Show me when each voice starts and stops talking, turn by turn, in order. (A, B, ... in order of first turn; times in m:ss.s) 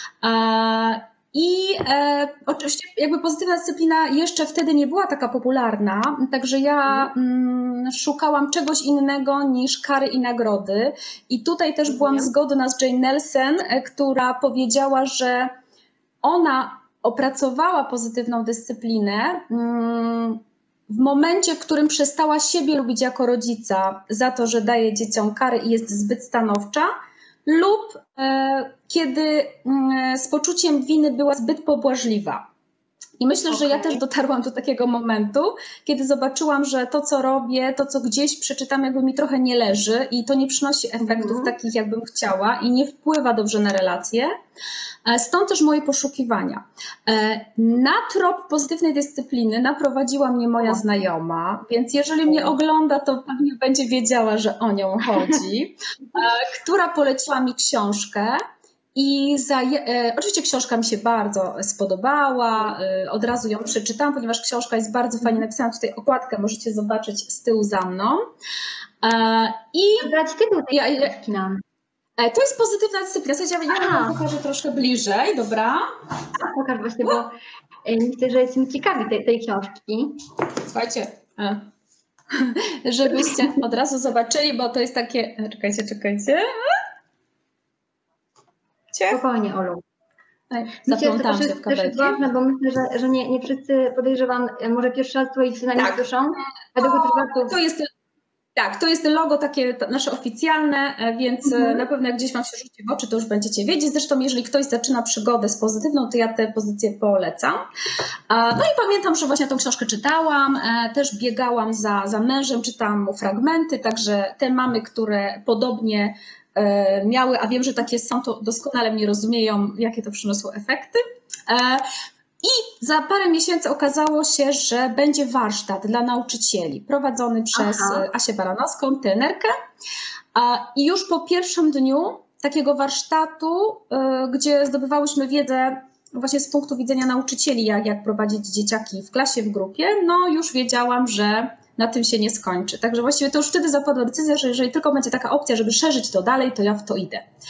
0:00.2-0:15.5 A
0:11.9-0:12.3 B
0:16.2-0:26.9 A
0:27.4-0:32.4 A
0:33.2-0:44.3 A
0:33.5-0:34.0 B
0:41.0-0:41.5 B
0:45.0-0:58.4 A
0:58.9-1:08.3 A
1:09.0-1:10.1 A
1:10.0-1:11.6 B
1:10.7-1:11.1 A
1:12.2-1:15.8 A
1:13.7-1:14.2 B
1:16.4-1:20.1 B
1:20.6-1:21.6 A
1:22.3-1:26.8 A
1:28.9-1:29.2 A
1:29.1-1:29.8 B
1:30.5-1:32.2 A
1:30.8-1:37.5 B
1:35.8-1:36.0 A
1:36.8-1:37.9 A
1:38.6-1:47.6 A
1:41.4-1:41.8 B
1:48.3-2:01.9 A
2:02.4-2:09.5 A
2:07.5-2:08.0 B
2:10.3-2:27.2 A